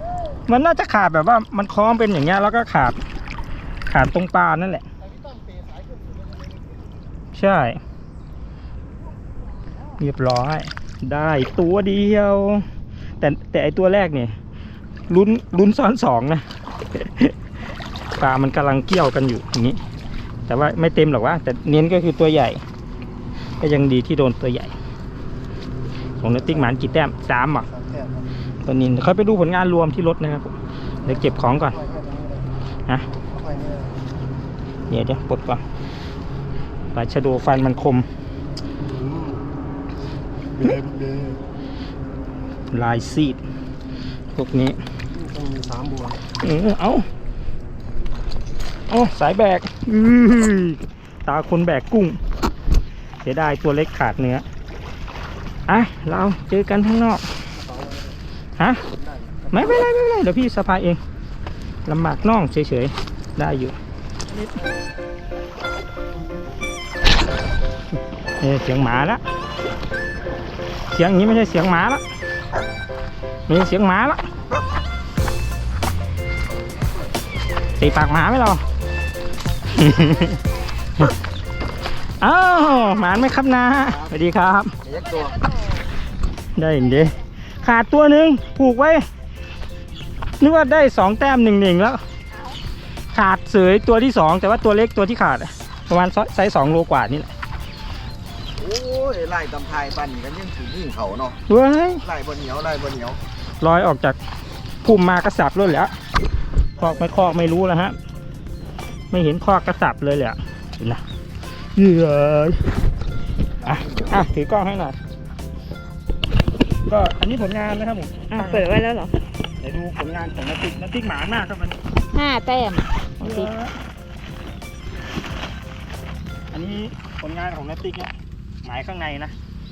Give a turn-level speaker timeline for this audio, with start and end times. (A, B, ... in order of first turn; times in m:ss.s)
0:00.5-0:03.0 A
0:03.9-0:04.8 A
0:05.0-0:07.1 B
0:07.3-0:07.8 A
0:09.6-0:09.9 B
0:10.0-0:12.7 A
0:13.2-0:14.4 A
0:15.1-0:17.4 A
0:18.2-0:19.8 A
0:20.5-0:22.6 A
0:23.6-0:24.8 A
0:26.2-0:27.7 A
0:26.3-0:26.8 B
0:27.6-0:28.5 B
0:28.7-0:30.5 A
0:31.0-0:31.8 A
0:31.0-0:32.5 B
0:33.2-0:34.0 B
0:34.9-0:35.6 A
0:36.9-0:38.1 A
0:38.9-0:39.5 B
0:40.6-0:41.4 B
0:42.7-0:43.4 A
0:44.4-0:44.8 A
0:45.1-0:46.2 B
0:46.4-0:47.1 A
0:48.9-0:52.2 A
0:53.2-0:54.4 A
0:55.7-0:57.2 A
0:57.6-0:58.2 B
0:58.6-0:58.8 A
0:58.9-0:59.8 B
0:59.5-1:01.0 A
1:01.9-1:03.8 A
1:04.3-1:04.5 A
1:08.4-1:09.2 A
1:10.9-1:12.0 A
1:13.5-1:14.2 A
1:17.8-1:18.6 A
1:19.7-1:20.4 A
1:19.8-1:20.4 C
1:22.2-1:24.7 A
1:23.8-1:24.1 D
1:24.8-1:25.5 D
1:25.1-1:25.9 C
1:26.6-1:29.1 A
1:30.4-1:32.0 A
1:32.3-1:32.6 C
1:33.1-1:37.3 A
1:38.6-1:41.4 D
1:41.5-1:42.0 A
1:42.0-1:43.2 D
1:43.6-1:44.2 A
1:44.8-1:45.9 A
1:46.8-1:48.0 A
1:46.8-1:47.1 D
1:49.1-1:51.0 A
1:51.8-1:52.6 A
1:53.6-1:54.3 D
1:53.6-1:55.0 A
1:56.8-1:58.7 A
1:58.3-1:59.1 C
1:59.6-2:01.8 A
2:02.1-2:03.5 C
2:03.2-2:03.8 A
2:06.5-2:08.1 A
2:08.6-2:09.4 A